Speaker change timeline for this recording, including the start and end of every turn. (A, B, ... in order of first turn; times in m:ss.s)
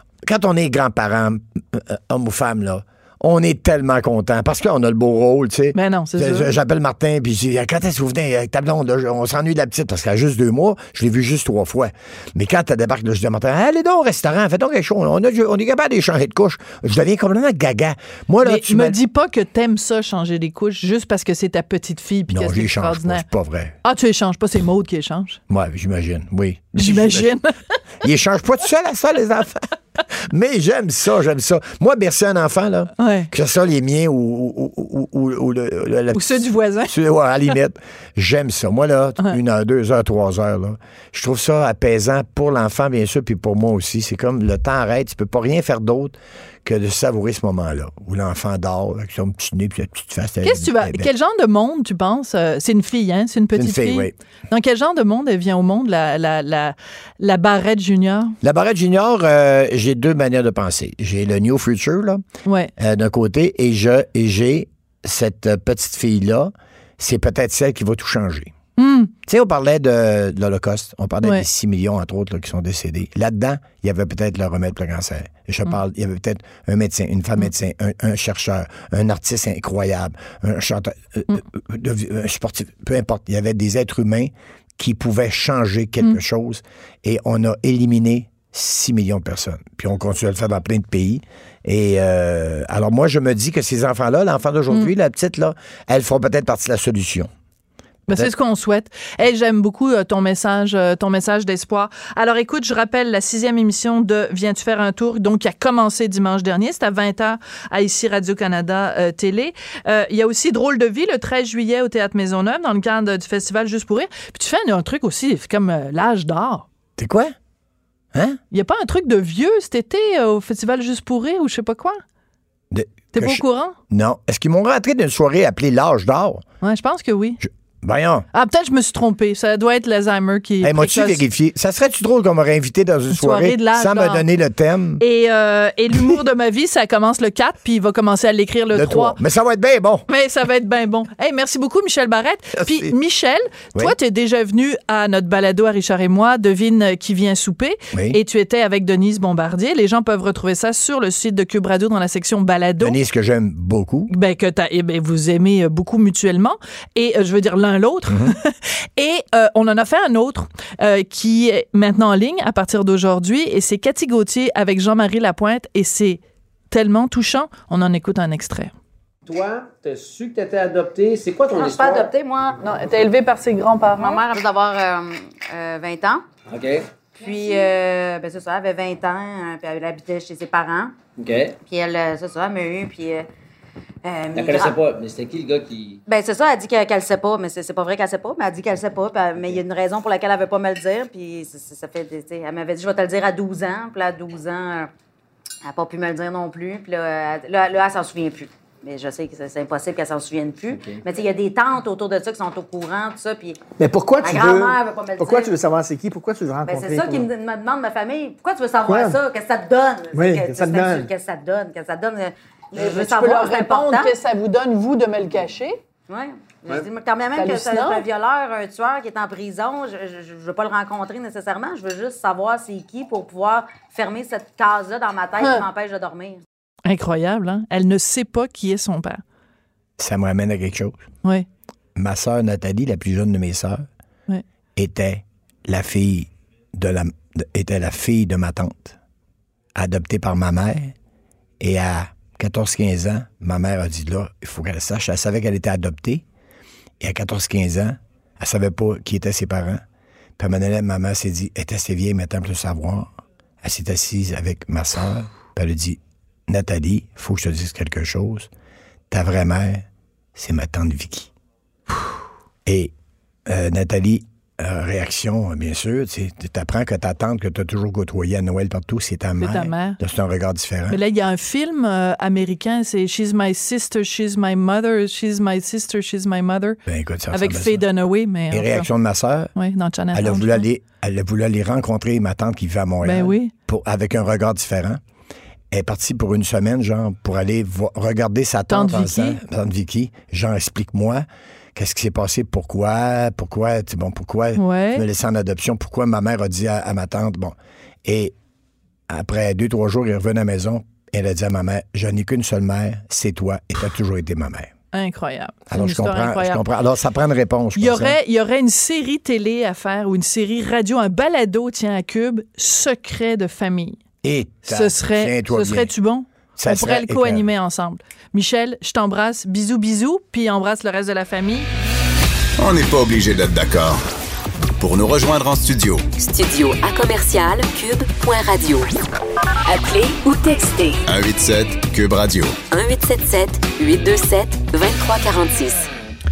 0:00.2-0:19.0 A
0:05.7-0:06.5 B
0:18.4-0:23.2 B
0:22.3-0:23.7 A
0:23.8-0:25.4 B
0:25.5-0:27.3 A
0:26.8-0:27.8 B
0:28.0-0:51.1 A
0:33.0-0:33.3 B
0:36.1-0:36.9 B
0:50.4-0:58.4 B
0:53.5-0:54.1 A
0:58.4-1:02.2 A
1:02.4-1:02.7 B
1:02.8-1:08.5 A
1:08.8-1:09.1 B
1:09.3-1:37.3 A
1:38.1-1:56.6 B
1:57.0-1:57.3 A
1:58.5-2:02.0 B
2:02.7-2:06.4 A
2:03.1-2:03.8 B
2:06.6-2:07.4 B
2:07.4-2:08.2 A
2:08.3-2:11.2 B
2:10.6-2:15.0 A
2:13.1-2:14.2 B
2:15.0-2:19.2 B
2:18.7-2:20.0 A
2:20.1-2:33.0 B
2:22.6-2:22.9 A
2:27.9-2:28.2 A
2:32.8-2:34.1 A
2:34.1-2:46.2 B
2:38.1-2:38.3 A
2:46.7-2:48.7 B
2:49.2-2:52.1 C
2:51.5-2:52.6 D
2:52.6-2:54.2 B
2:53.9-2:56.2 D
2:56.5-2:56.9 C
2:57.2-3:01.0 D
3:01.2-3:01.6 C
3:01.6-3:03.3 D
3:04.0-3:04.8 D
3:04.3-3:06.0 C
3:06.1-3:14.9 D
3:15.6-3:23.6 D
3:20.7-3:21.0 C
3:23.8-3:27.3 E
3:24.2-3:25.5 D
3:26.6-3:34.2 D
3:28.8-3:29.2 E
3:30.1-3:31.1 E
3:32.8-3:35.8 B
3:36.1-3:46.4 D
3:37.4-3:38.0 B
3:45.4-3:45.6 B
3:46.8-3:49.2 B
3:50.0-3:51.0 A
3:52.0-3:53.8 A
3:54.8-3:59.0 A
3:59.7-4:00.9 A
4:01.6-4:06.2 A
4:07.0-4:09.8 A
4:10.4-4:18.5 A
4:19.1-4:21.3 A
4:22.6-4:22.9 A
4:23.5-4:31.0 A
4:29.4-4:30.0 B
4:30.9-4:36.8 B
4:36.8-4:37.8 A
4:37.3-4:38.9 B
4:38.5-4:39.5 A
4:39.6-4:40.6 B
4:40.1-4:45.0 A
4:43.0-4:43.5 B
4:45.7-4:51.2 A
4:48.7-4:49.4 B
4:51.7-4:58.3 A
4:54.6-4:55.0 B
4:59.1-5:04.7 A
5:04.9-5:06.6 B
5:05.7-5:08.2 A
5:07.8-5:14.0 B
5:14.2-5:15.9 A
5:14.7-5:21.7 B
5:16.6-5:17.4 A
5:22.6-5:24.0 F
5:24.8-5:26.0 F
5:26.2-5:28.9 G
5:29.6-5:31.0 G
5:31.0-5:32.5 F
5:32.7-5:35.9 G